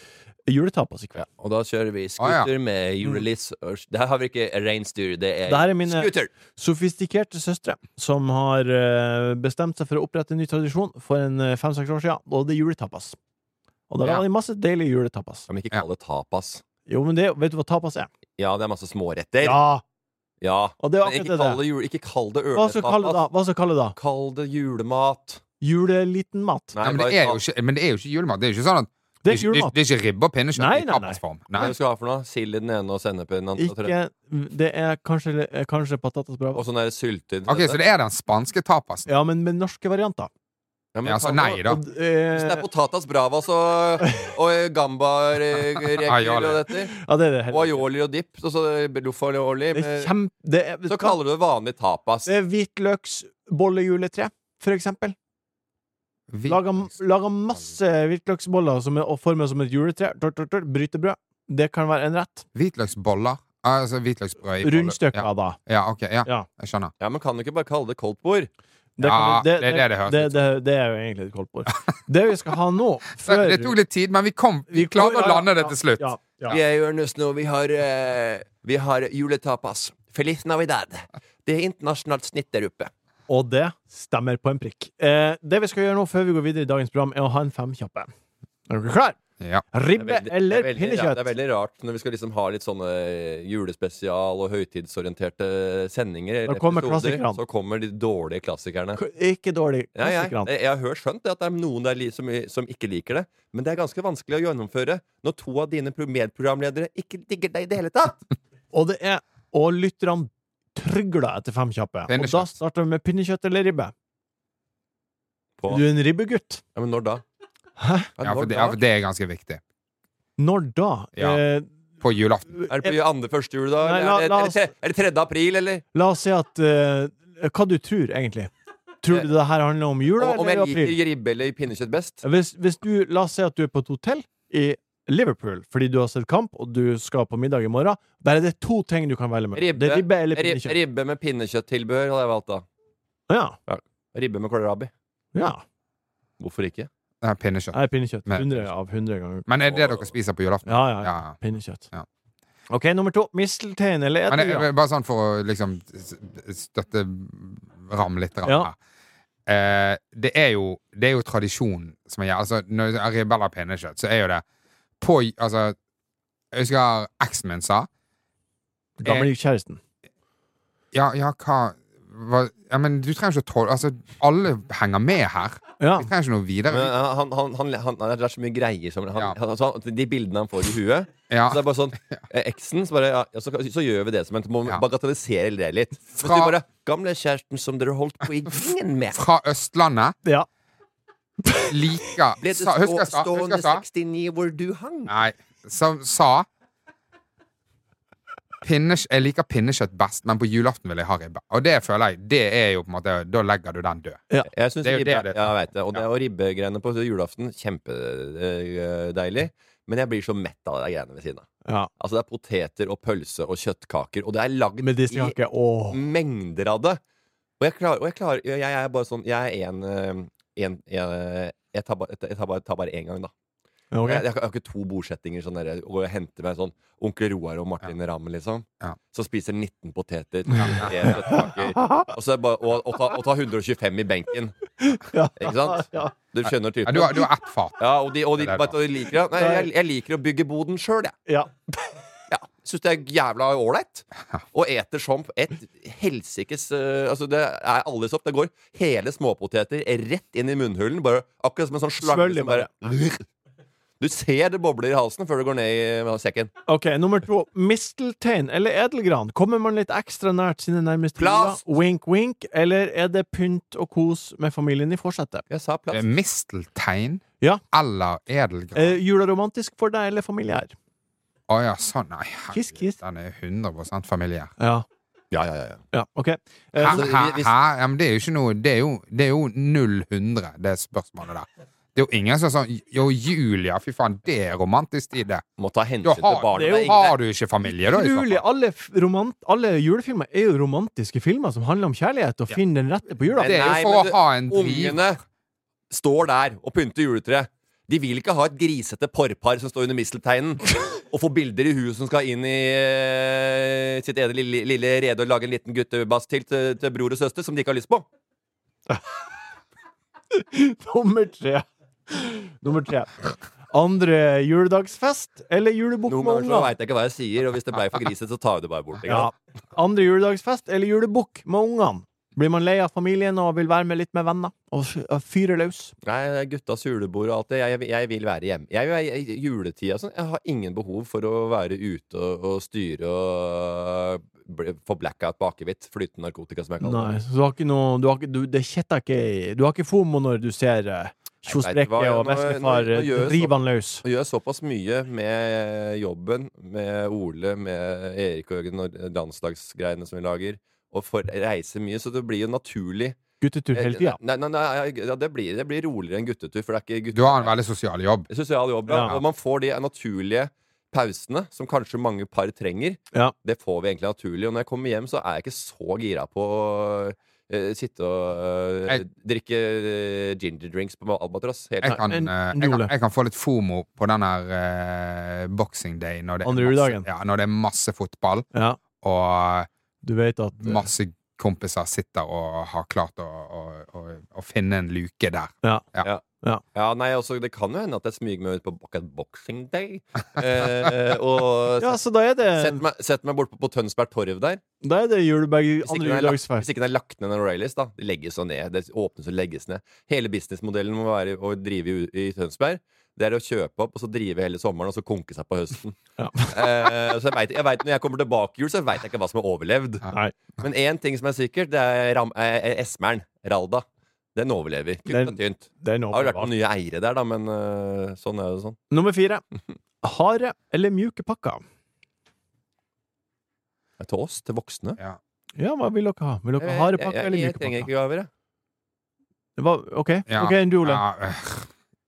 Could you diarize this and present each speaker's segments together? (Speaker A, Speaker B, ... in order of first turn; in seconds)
Speaker A: 0.5-1.2, 5.5-13.2, 13.9-15.4, 16.9-18.1, 19.4-19.8, 20.8-21.6, 22.6-23.9, 25.6-26.7, 29.2-29.7, 30.6-31.2, 33.6-36.6, 39.1-40.3, 41.6-42.6, 44.0-44.3, 46.9-47.8, 49.7-51.2, 52.2-55.1, 56.4-62.4, 64.6-65.6, 69.0-73.7, 74.7-76.6, 83.3-88.1, 88.7-89.2, 89.7-91.3, 96.5-97.4, 99.0-100.5, 108.7-113.9, 115.7-116.6, 117.8-118.1, 120.4-121.7, 122.6-123.0, 123.8-124.6, 125.9-128.5, 129.0-131.0, 132.2-140.8, 143.3-143.6, 145.3-145.6, 147.7-149.4, 150.7-151.8, 152.7-154.7, 169.0-169.8, 175.8-176.1, 191.5-191.7, 211.6-211.9, 214.8-216.0, 223.9-224.2, 231.8-232.1, 234.8-236.1, 239.3-239.7, 241.3-241.5, 252.0-252.7, 256.7-265.4, 268.7-270.7, 272.5-273.0, 274.6-274.8, 275.9-277.0, 286.6-286.9, 287.9-293.5, 310.3-316.7, 319.1-325.9, 336.8-344.0, 353.4-354.2, 358.9-359.1, 371.9-372.9, 376.4-377.1, 378.5-378.8, 380.0-380.9, 391.8-392.8, 394.8-396.6, 406.2-406.9, 415.1-416.5, 418.9-419.4, 420.0-421.6, 425.6-427.9, 429.6-431.0
Speaker B: 1.2-6.3, 15.5-16.6, 18.4-19.6, 20.4-23.2, 23.9-25.4, 26.7-27.4, 31.6-33.9, 36.5-37.8, 40.9-41.7, 42.3-46.9, 47.5-50.1, 50.9-52.3, 67.0-68.5, 76.5-82.9, 90.0-99.0, 100.0-108.2, 115.6-115.8, 116.7-117.2, 118.2-118.8, 122.7-125.8, 130.2-132.2, 139.5-142.6, 143.7-144.9, 146.4-146.9, 149.7-150.1, 176.7-189.2, 192.4-195.1, 204.5-211.5, 212.0-215.3, 215.9-217.0, 217.6-223.3, 224.0-234.5, 235.4-241.2, 242.3-253.2, 254.0-256.5, 261.2-261.6, 265.5-266.1, 275.3-275.8, 276.9-277.5, 285.6-287.1, 293.4-295.2, 295.9-308.1, 316.1-319.3, 326.0-337.1, 341.5-353.2, 353.7-357.5, 358.3-372.0, 386.7-392.0, 392.5-394.6, 395.8-410.1, 410.6-418.8, 424.0-425.0, 426.6-428.3
Speaker C: 2.2-2.5, 26.8-31.7, 37.5-39.1, 41.0-41.8, 45.9-46.7, 56.3-56.9, 62.5-66.9, 69.0-70.4, 73.2-76.1, 89.4-89.6, 112.1-112.5, 118.2-119.6, 122.0-122.6, 147.2-148.7, 149.5-151.4, 154.3-158.8, 159.5-164.4, 165.0-165.8, 166.5-167.9, 170.9-176.9, 181.3-182.2, 186.2-186.6, 189.1-190.1, 191.7-193.8, 195.1-196.4, 198.6-204.2, 204.8-206.0, 230.6-231.7, 236.8-238.8, 265.9-268.9, 271.5-274.5, 276.8-285.4, 286.0-288.4, 293.4-295.1, 357.1-358.3, 359.0-359.2, 371.8-378.5, 379.0-379.7, 380.6-386.1, 430.3-431.7